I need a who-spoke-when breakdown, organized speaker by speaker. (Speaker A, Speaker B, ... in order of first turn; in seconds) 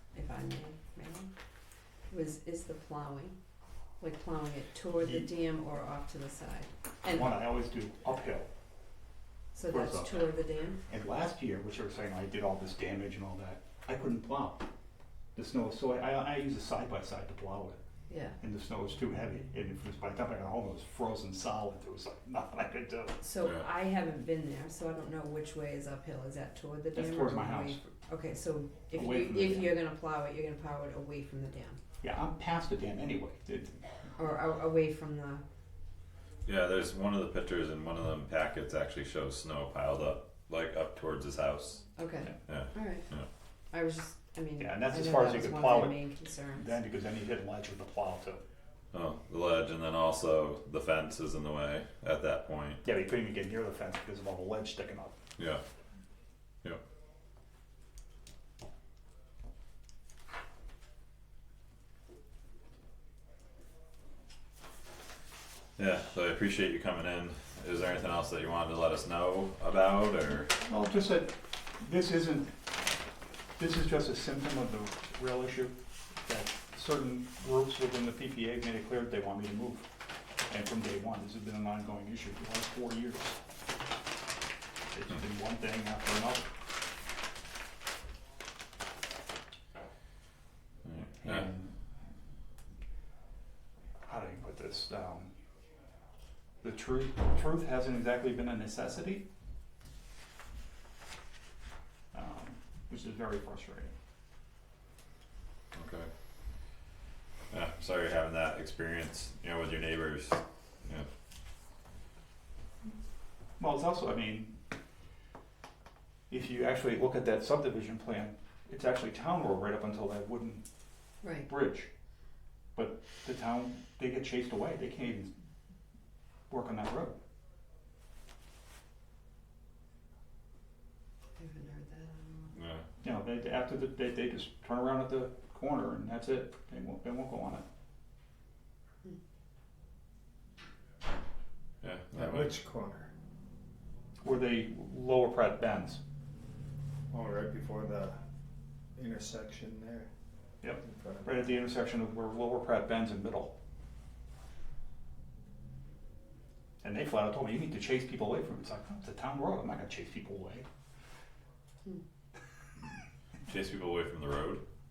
Speaker A: 0.1-1.3, 2.1-3.4, 4.0-7.3, 9.5-10.8, 18.1-18.4, 23.2-31.8, 34.2-35.4, 42.0-43.1, 43.7-46.7, 121.2-121.5, 131.4-132.6
Speaker B: 5.0-5.3, 7.1-8.5, 9.7-10.3, 10.9-14.6, 15.3-17.8, 18.4-23.2, 26.9-27.8, 29.0-29.7, 32.0-33.8, 44.6-46.0, 46.5-48.4, 52.8-55.1, 70.7-72.5, 73.6-75.7, 76.3-79.9, 80.5-83.4, 84.9-86.5, 91.2-91.7, 94.0-95.3, 96.6-99.3, 102.1-103.9, 113.6-114.6, 116.3-120.7, 121.5-121.9, 122.8-125.3, 126.5-127.2, 133.0-137.6, 144.2-146.0, 150.6-153.5, 156.8-160.7
Speaker C: 36.5-41.8, 42.5-43.3, 48.9-52.8, 55.4-55.6, 65.8-70.5, 90.8-91.5, 105.8-106.1, 107.5-111.1, 132.6-132.8, 141.8-142.6, 163.5-164.6
Speaker D: 142.2-143.1, 147.1-148.2, 148.9-150.1, 150.8-151.5